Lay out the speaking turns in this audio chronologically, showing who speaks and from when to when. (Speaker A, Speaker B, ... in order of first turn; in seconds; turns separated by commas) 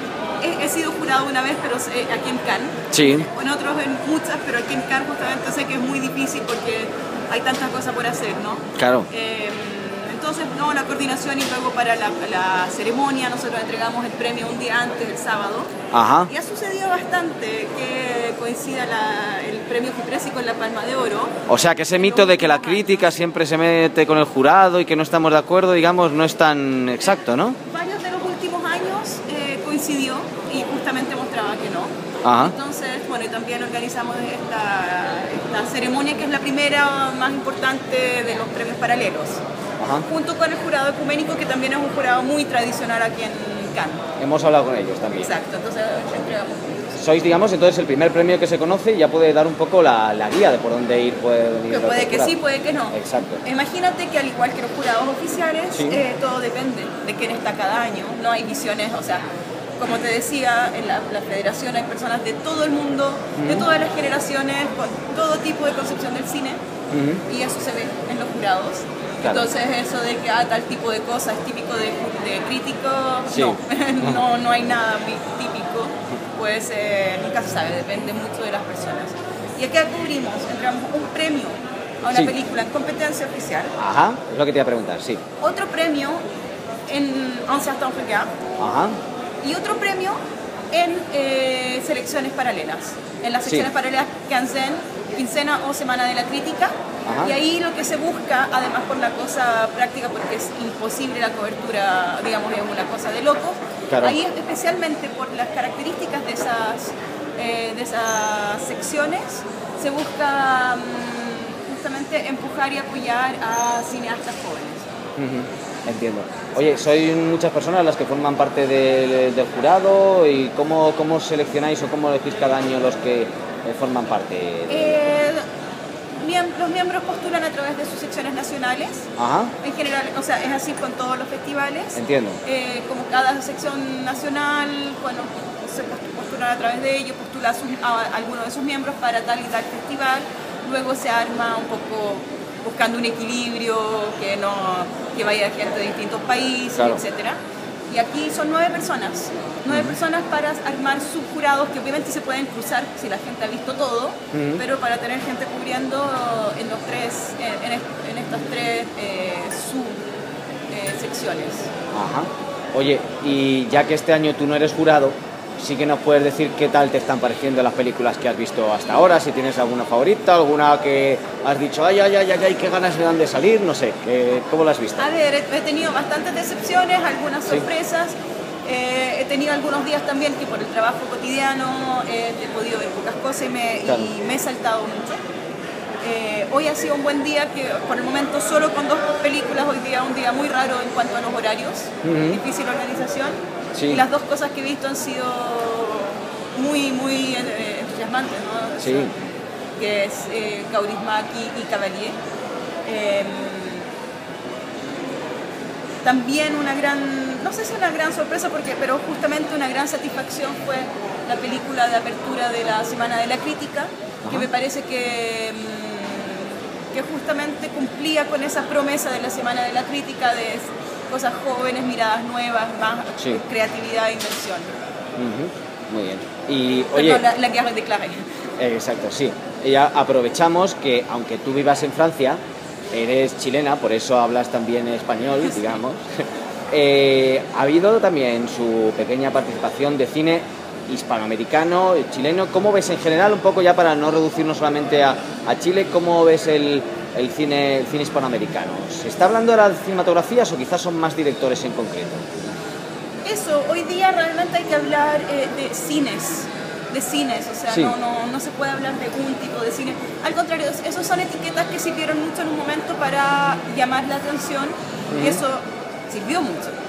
Speaker A: 0.4-15.7, Speaker B: 2.9-3.3, Speaker B: 8.8-9.1, Speaker B: 15.9-16.3, Speaker A: 16.3-21.4, Speaker B: 21.5-27.6, Speaker A: 21.9-23.2, Speaker A: 27.7-39.4, Speaker B: 32.2-32.5, Speaker B: 39.8-40.0, Speaker A: 40.0-44.0, Speaker B: 44.2-45.3, Speaker A: 45.1-47.0, Speaker B: 47.0-52.3, Speaker A: 51.7-59.2, Speaker B: 52.9-53.4, Speaker B: 55.7-56.0, Speaker A: 59.8-66.6, Speaker B: 63.4-63.7, Speaker B: 66.9-67.2, Speaker A: 67.2-83.7, Speaker B: 73.3-74.2, Speaker B: 83.8-85.2, Speaker A: 85.4-86.2, Speaker A: 86.9-88.7, Speaker B: 88.6-89.0, Speaker A: 89.4-90.2, Speaker A: 90.7-114.8, Speaker B: 97.0-97.3, Speaker B: 103.9-104.2, Speaker B: 115.2-125.0, Speaker A: 124.7-125.4, Speaker A: 126.2-129.1, Speaker B: 129.2-129.5, Speaker A: 129.6-147.4, Speaker B: 131.9-132.4, Speaker B: 146.7-147.0, Speaker A: 147.9-160.0, Speaker B: 154.3-154.6, Speaker A: 160.7-161.7, Speaker B: 161.9-175.1, Speaker A: 175.0-185.2, Speaker A: 186.0-202.2, Speaker B: 192.0-192.4, Speaker B: 193.7-194.0, Speaker B: 198.8-199.1, Speaker A: 202.8-203.9, Speaker A: 206.0-224.7, Speaker B: 214.2-214.5, Speaker B: 225.2-227.2, Speaker A: 226.9-228.2, Speaker B: 228.6-232.4, Speaker B: 232.9-236.1, Speaker B: 236.7-252.2, Speaker A: 253.2-266.8, Speaker B: 257.7-257.9, Speaker B: 265.1-265.4